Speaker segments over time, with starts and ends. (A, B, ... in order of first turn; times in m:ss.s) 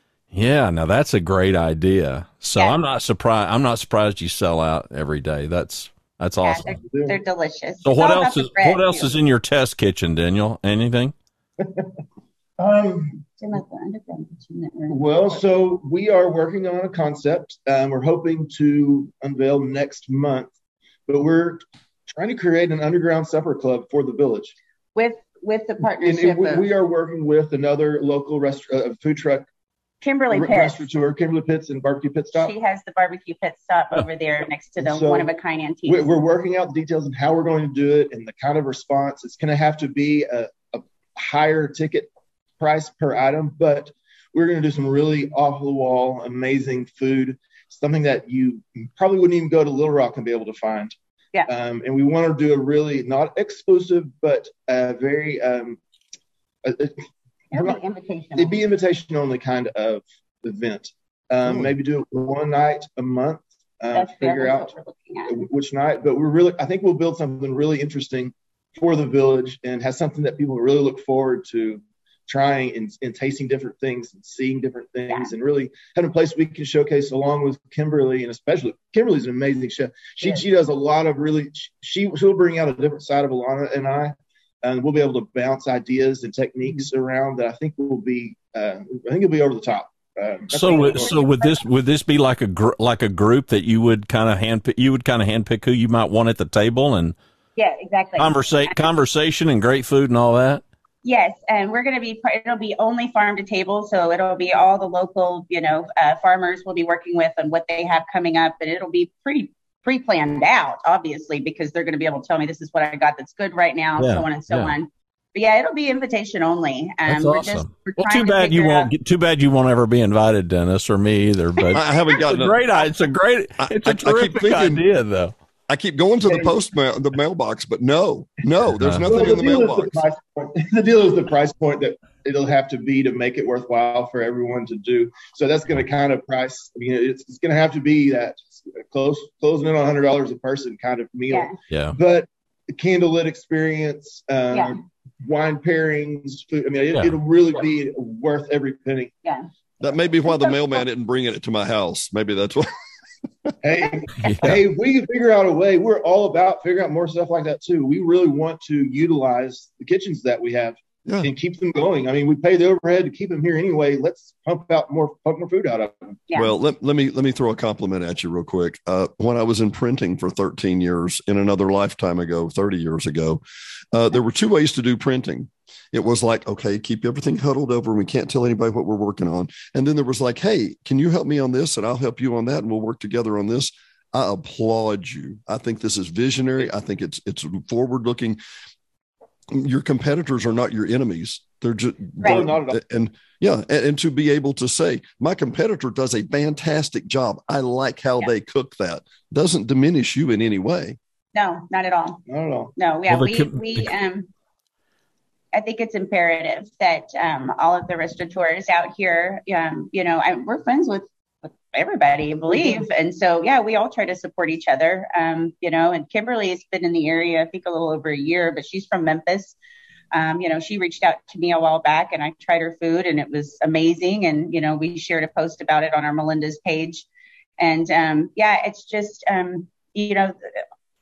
0:00.3-0:06.6 A
0:06.4-0:09.1 B
0:06.8-0:07.2 C
0:07.8-0:11.1 A
0:11.6-0:12.0 C
0:12.6-0:13.3 C
0:13.4-0:15.4 B
0:14.9-0:20.5 C
0:21.1-0:24.6 C
0:25.0-0:26.7 B
0:26.0-0:29.5 C
0:30.0-0:30.9 B
0:30.3-0:32.5 C
0:32.3-0:36.1 B
0:34.8-0:35.3 C
0:35.9-0:50.9 C
0:51.5-0:55.8 C
0:56.6-0:57.8 C
0:57.5-0:58.6 B
0:58.4-1:04.7 C
1:01.5-1:01.7 D
1:03.9-1:05.4 B
1:05.3-1:31.2 C
1:30.5-1:37.2 A
1:30.7-1:31.6 B
1:37.6-1:38.8 B
1:38.2-1:40.6 A
1:41.0-1:58.9 B
1:54.0-1:54.8 A
1:57.1-2:05.3 A
2:01.7-2:02.6 D
2:03.6-2:04.8 D
2:05.7-2:10.0 D
2:08.8-2:09.2 A
2:09.1-2:29.1 C
2:21.3-2:21.5 B
2:21.7-2:22.0 A
2:29.8-2:32.7 D
2:30.2-2:30.8 B
2:33.6-2:46.2 C
2:34.2-2:34.6 A
2:46.4-2:53.4 D
2:53.9-3:08.4 D
3:09.5-3:21.0 D
3:12.2-3:12.5 B
3:12.2-3:12.8 C
3:21.3-3:22.2 B
3:22.3-3:22.7 C
3:22.8-3:24.3 B
3:23.1-3:23.9 A
3:25.5-3:39.6 B
3:32.5-3:32.8 C
3:40.1-3:47.1 B
3:47.6-3:50.6 B